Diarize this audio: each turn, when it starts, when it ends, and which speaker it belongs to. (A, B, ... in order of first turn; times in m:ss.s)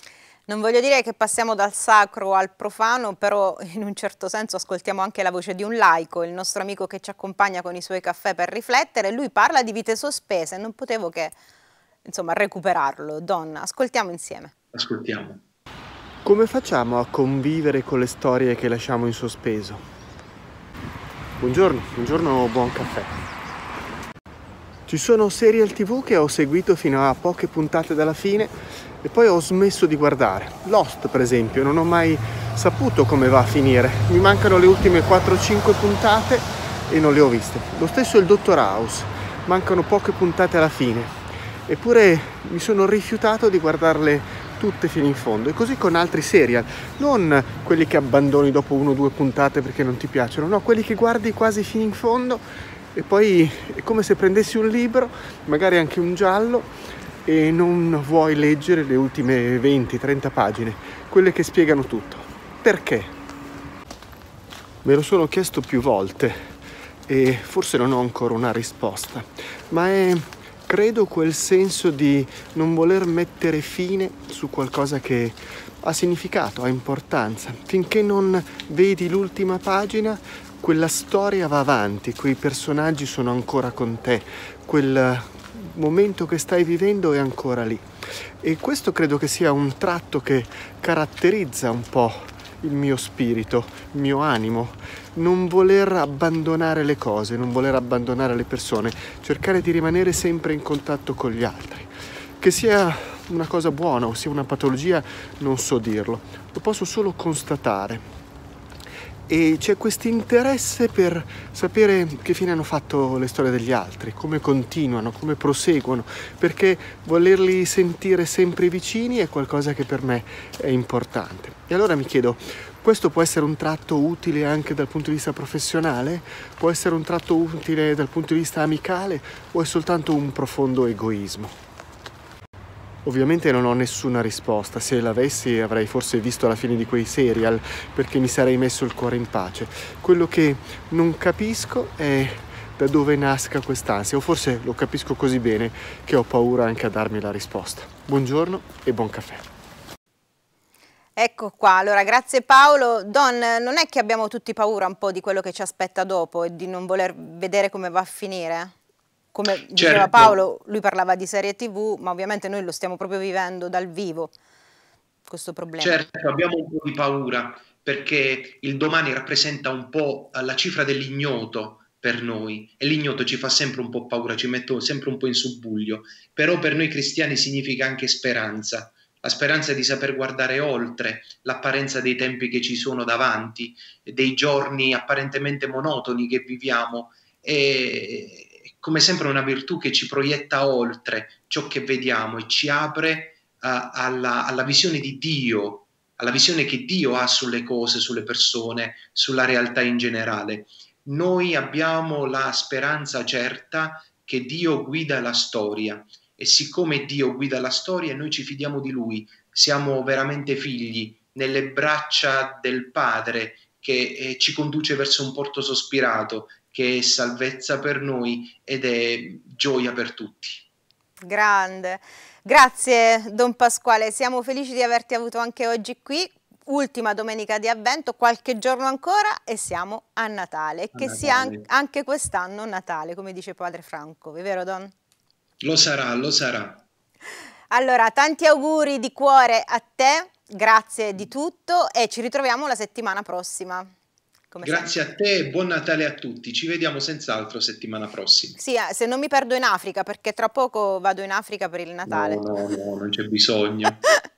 0:00.5-0:11.4 A
0:12.0-0:14.5 A
0:14.7-0:15.4 B
0:16.2-0:19.8 C
0:21.4-0:23.1 C
0:24.9-0:41.1 C
0:41.7-0:52.4 C
0:52.9-0:56.7 C
0:57.2-1:03.1 C
1:04.8-1:06.5 C
1:07.1-1:27.8 C
1:28.4-1:41.9 C
1:42.4-1:48.0 C
1:49.3-2:11.5 C
2:13.0-2:29.4 C
2:31.2-2:38.7 A
2:39.3-2:44.3 A
2:39.8-2:40.4 B
2:45.3-2:46.0 A
2:45.8-3:40.7 B
3:41.2-3:54.9 A
3:51.0-3:51.6 B
3:55.6-3:56.8 B
3:57.7-4:03.9 A
4:04.5-4:05.0 A
4:04.6-4:08.6 B
4:08.6-4:12.5 A
4:12.1-4:14.0 B